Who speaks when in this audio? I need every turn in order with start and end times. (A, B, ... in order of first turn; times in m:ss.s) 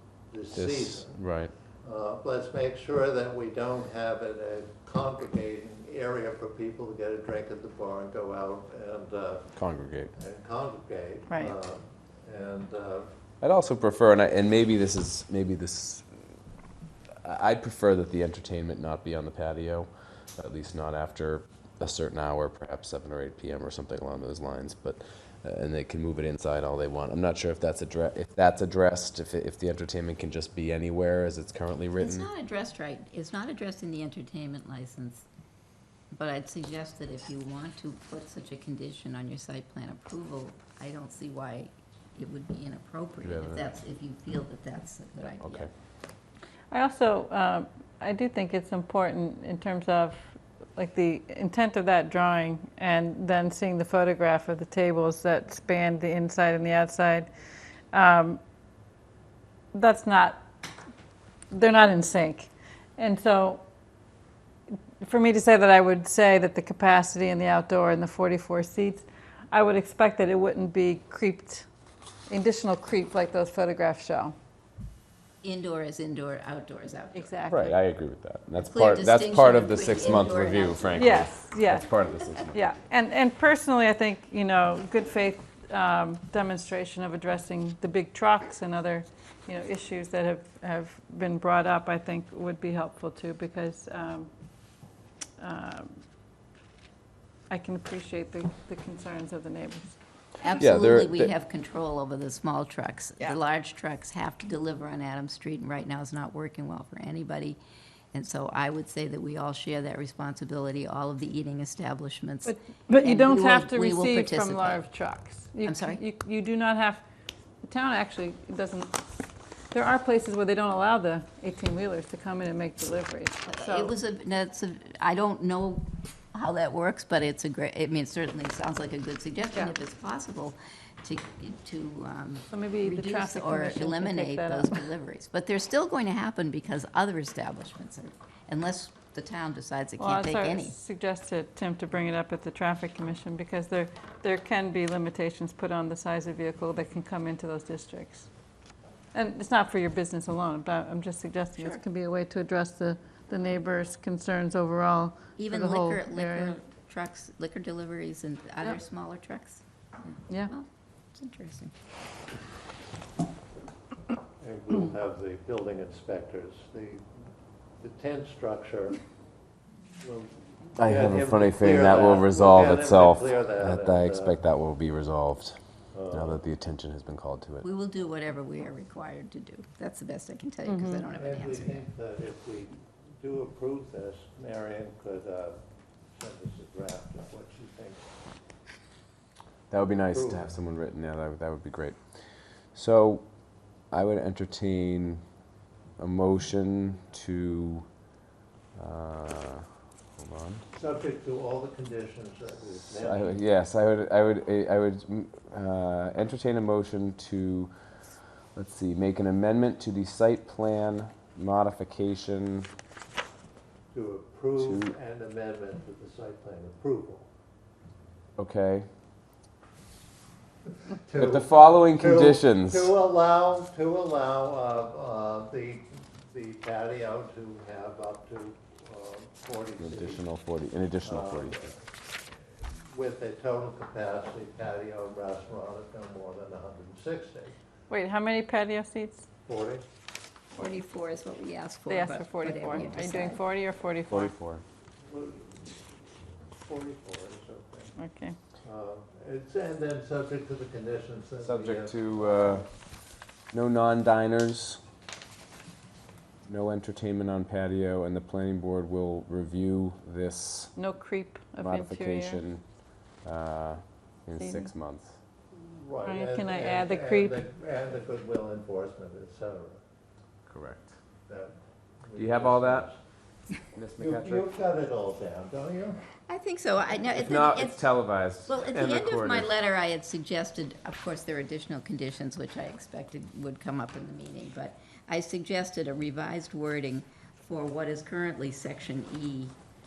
0:00.3-0:01.2 A
0:00.5-0:01.5 B
0:01.8-0:09.6 A
0:09.6-0:10.1 B
0:10.1-0:13.1 A
0:11.3-0:11.5 C
0:13.4-0:16.1 B
0:17.2-0:32.3 B
0:32.0-0:35.2 D
0:36.1-0:45.7 D
0:43.2-0:43.7 B
0:45.4-0:45.7 B
0:46.7-0:57.3 C
0:57.9-0:58.4 C
0:59.7-1:00.4 C
1:01.5-1:03.6 C
1:05.0-1:11.7 C
1:12.3-1:14.3 C
1:15.4-1:17.5 D
1:17.1-1:17.7 C
1:17.5-1:22.6 B
1:18.6-1:21.1 D
1:20.9-1:21.9 C
1:22.5-1:34.3 C
1:35.4-1:36.0 C
1:37.5-1:39.9 C
1:40.4-1:47.6 D
1:40.6-1:41.3 B
1:48.1-1:54.8 D
1:52.4-1:57.0 C
1:55.6-1:56.0 D
1:57.6-1:59.0 C
1:59.7-2:03.9 C
2:03.5-2:20.8 D
2:09.5-2:09.7 C
2:12.5-2:14.9 C
2:20.0-2:28.3 C
2:29.1-2:36.6 C
2:31.6-2:31.8 D
2:35.4-2:41.7 D
2:44.4-2:47.0 A
2:47.8-2:49.0 A
2:50.0-2:54.4 A
2:50.8-2:55.6 B
2:55.9-2:56.4 A
2:56.1-2:57.6 B
2:57.6-3:01.9 D
3:00.6-3:01.1 C
3:01.2-3:05.6 A
3:06.1-3:08.0 A
3:09.7-3:13.2 B
3:10.1-3:10.5 A
3:13.9-3:15.2 B
3:16.0-3:17.8 B
3:18.8-3:19.6 B
3:20.2-3:20.6 B
3:20.7-3:23.4 A
3:22.8-3:27.7 B
3:28.5-3:32.7 B
3:33.9-3:37.3 A
3:34.6-3:34.9 B
3:38.4-3:38.9 B
3:40.8-3:50.2 A
3:41.2-3:42.9 B
3:49.8-3:51.7 B
3:51.0-3:51.9 A
3:52.9-3:57.6 A
3:57.9-3:59.2 C
3:59.4-3:59.8 A
4:00.5-4:03.4 D
4:01.9-4:04.3 C
4:04.1-4:04.6 B
4:05.0-4:07.9 A
4:08.0-4:08.4 C
4:08.6-4:12.6 A
4:11.4-4:12.7 B
4:13.5-4:14.8 B
4:16.4-4:20.7 B
4:20.7-4:22.4 C
4:21.6-4:22.6 B
4:23.2-4:25.2 B
4:24.4-4:24.7 C
4:25.5-4:29.8 A
4:26.0-4:27.4 C
4:30.4-4:30.9 B
4:31.3-4:33.0 A
4:32.2-4:32.9 B
4:33.6-4:34.5 B
4:34.0-4:36.1 A
4:36.3-4:37.9 D
4:37.0-4:39.5 B
4:38.5-4:49.5 D